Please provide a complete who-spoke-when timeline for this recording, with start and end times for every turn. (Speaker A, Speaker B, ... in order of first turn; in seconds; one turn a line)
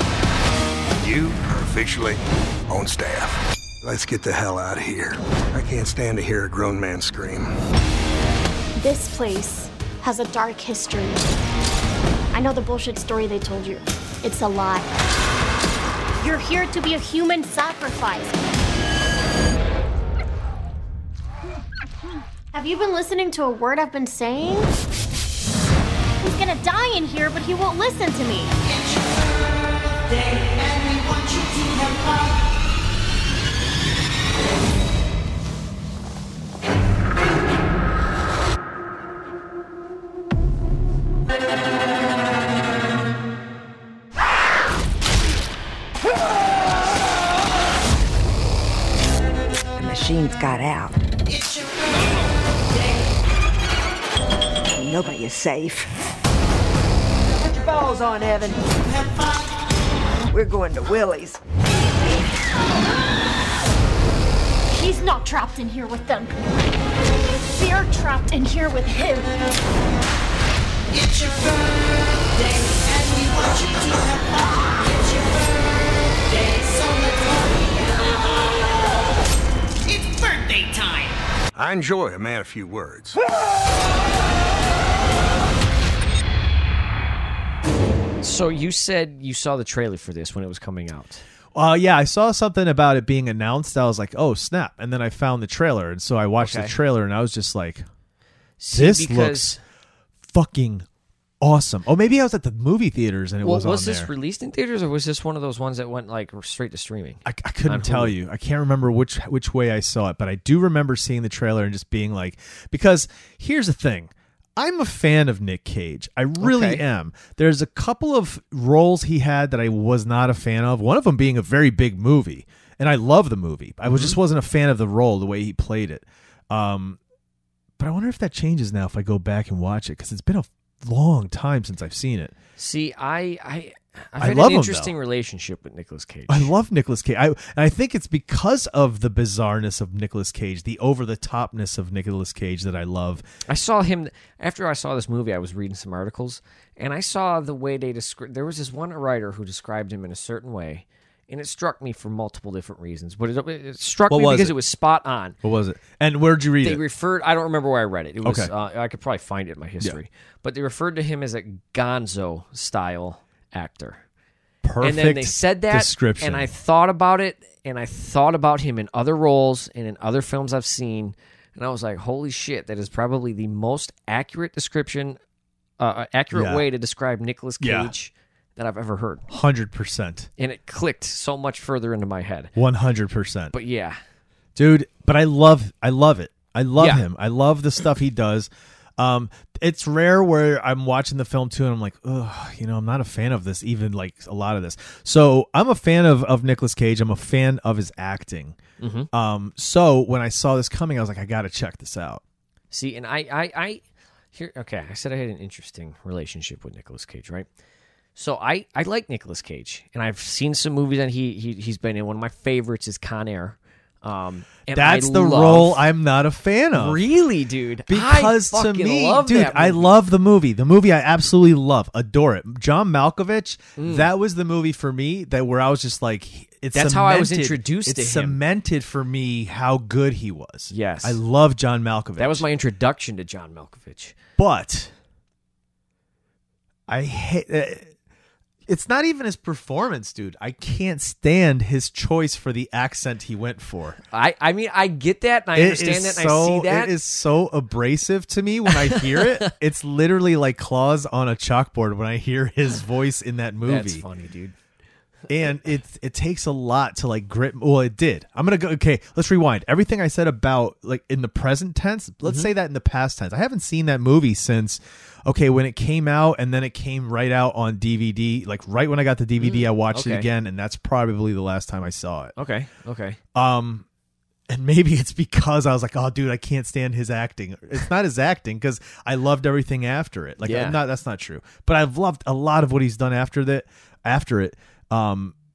Speaker A: 1.0-7.5
Speaker B: 8.8-11.2
Speaker B: 12.3-14.9
Speaker B: 16.2-18.4
Speaker B: 22.5-24.7
Speaker B: 26.2-28.6
Speaker C: 30.3-32.2
Speaker C: 49.8-51.0
Speaker C: 54.7-55.9
Speaker C: 57.4-59.5
Speaker C: 60.3-61.4
Speaker B: 64.7-66.5
Speaker B: 67.5-69.3
Speaker C: 71.0-71.5
Speaker C: 73.0-74.0
Speaker C: 80.1-81.0
Speaker A: 81.5-83.2
Speaker D: 88.2-91.2
Speaker E: 91.5-97.8
Speaker D: 96.4-96.7
Speaker D: 98.6-99.6
Speaker E: 98.7-99.6
Speaker E: 100.3-100.8
Speaker E: 101.4-104.1
Speaker D: 103.4-108.1
Speaker E: 107.2-127.0
Speaker D: 116.4-116.8
Speaker D: 123.8-124.2
Speaker E: 127.8-132.3
Speaker D: 132.6-136.5
Speaker E: 134.2-134.9
Speaker E: 136.3-143.2
Speaker D: 143.5-155.4
Speaker E: 154.1-154.5
Speaker E: 155.4-156.8
Speaker D: 156.6-164.0
Speaker E: 158.2-158.5
Speaker E: 164.6-166.5
Speaker D: 164.8-175.2
Speaker D: 175.8-179.2
Speaker E: 176.3-176.6
Speaker E: 177.6-177.9
Speaker E: 179.3-180.3
Speaker D: 180.4-182.5
Speaker E: 182.6-183.5
Speaker D: 183.5-184.0
Speaker E: 184.5-198.6
Speaker D: 186.8-187.0
Speaker D: 198.8-199.1
Speaker E: 199.1-202.2
Speaker D: 202.7-203.8
Speaker D: 204.3-207.5
Speaker D: 208.2-215.8
Speaker E: 214.7-217.0
Speaker D: 216.7-220.0
Speaker E: 217.9-232.4
Speaker D: 223.8-224.1
Speaker D: 226.7-228.4
Speaker D: 230.7-231.2
Speaker D: 232.2-234.2
Speaker E: 234.4-234.9
Speaker E: 236.9-237.9
Speaker E: 238.7-244.0
Speaker D: 244.1-246.9
Speaker E: 245.5-254.0
Speaker D: 248.7-249.5
Speaker D: 253.7-254.5
Speaker E: 255.3-272.3
Speaker D: 262.2-262.5
Speaker D: 269.4-270.3
Speaker D: 272.4-273.2
Speaker E: 273.3-273.8
Speaker E: 274.5-285.3
Speaker D: 280.4-280.8